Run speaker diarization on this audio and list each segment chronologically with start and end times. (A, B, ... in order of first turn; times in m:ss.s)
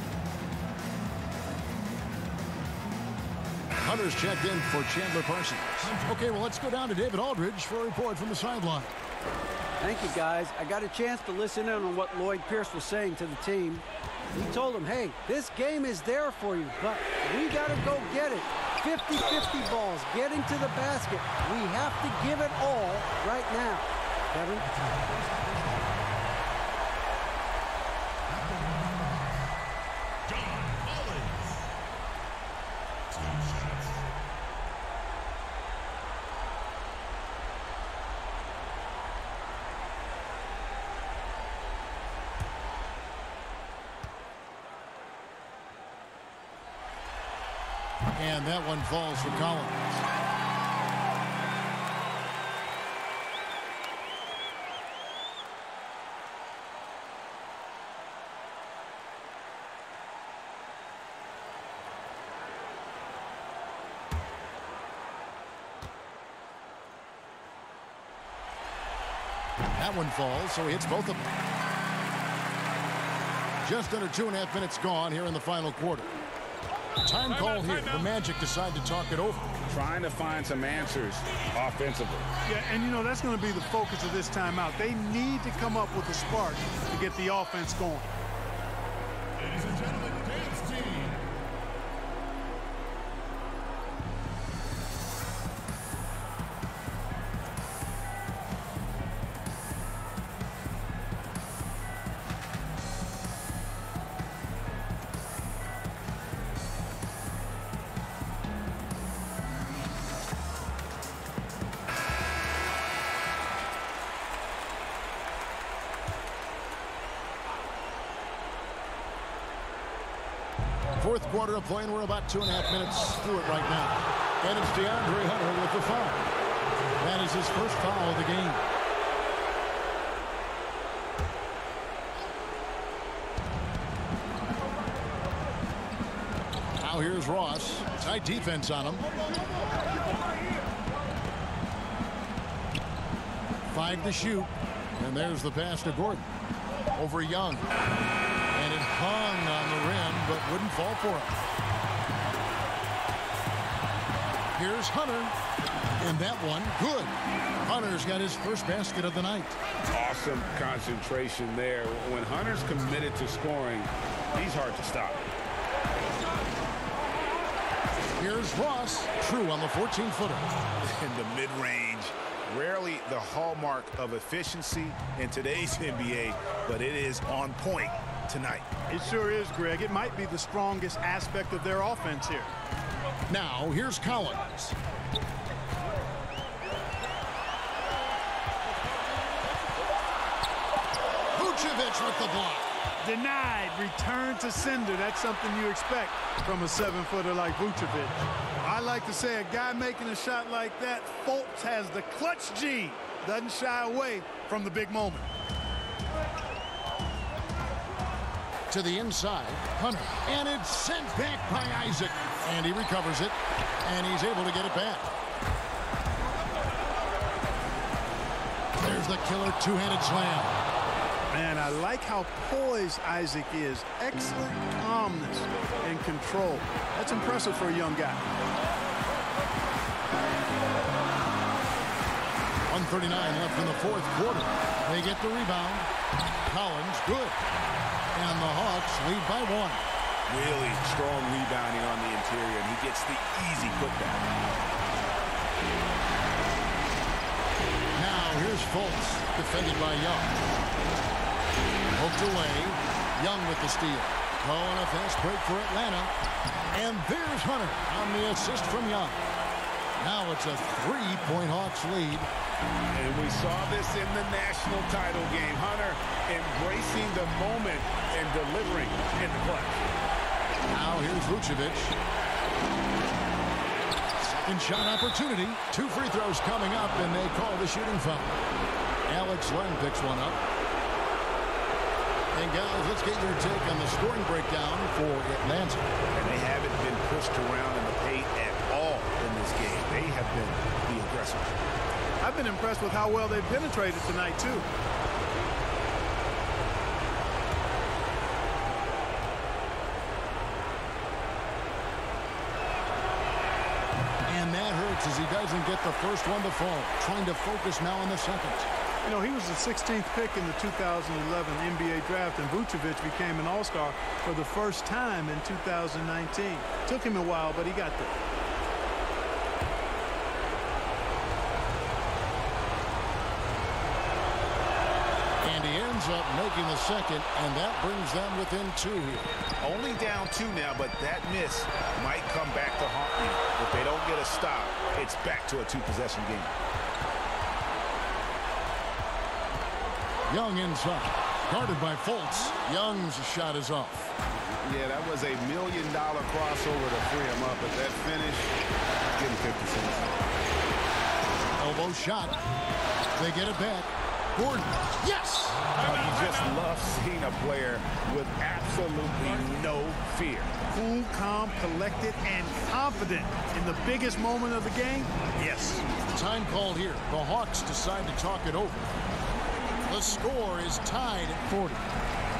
0:03.8-0:08.9 A
0:09.8-0:24.8 B
0:48.1-0:50.1 A
1:09.8-1:11.4 A
1:13.6-1:16.1 A
1:17.0-1:19.6 A
1:19.7-1:22.3 C
1:22.5-1:28.1 D
2:01.0-2:06.3 A
2:07.0-2:08.7 A
2:16.8-2:19.1 A
2:23.7-2:26.3 A
2:26.9-2:27.7 A
2:28.5-2:31.4 A
2:34.5-2:35.4 A
2:36.0-2:39.6 A
2:39.9-2:45.2 C
2:48.2-2:50.5 A
2:50.8-2:58.7 C
2:58.9-3:02.5 D
3:03.3-3:04.8 A
3:11.3-3:12.7 A
3:13.0-3:25.3 D
3:28.7-3:35.1 A
3:38.8-3:40.6 A
3:41.3-3:48.2 D
3:52.7-3:55.9 A
3:56.5-3:57.4 A
3:58.1-3:59.8 A
4:00.3-4:04.3 C
4:08.0-4:10.4 A
4:11.9-4:16.1 A
4:16.7-4:19.2 A
4:20.0-4:22.3 A
4:22.9-4:29.8 C
4:30.7-4:32.0 A
4:34.4-4:38.4 A
4:39.1-4:40.4 A
4:42.3-4:45.9 A
4:46.1-4:51.6 C
4:52.2-4:54.7 D
5:04.3-5:08.7 A
5:09.0-5:18.3 D
5:25.4-5:29.3 A
5:29.6-5:36.6 C
5:40.3-5:44.1 A
5:44.3-5:48.6 C
5:49.2-5:50.2 C
5:51.6-5:52.4 A
5:53.2-5:55.7 A
5:55.8-6:00.5 C
6:00.7-6:05.8 D
6:06.1-6:08.9 A
6:09.8-6:11.9 A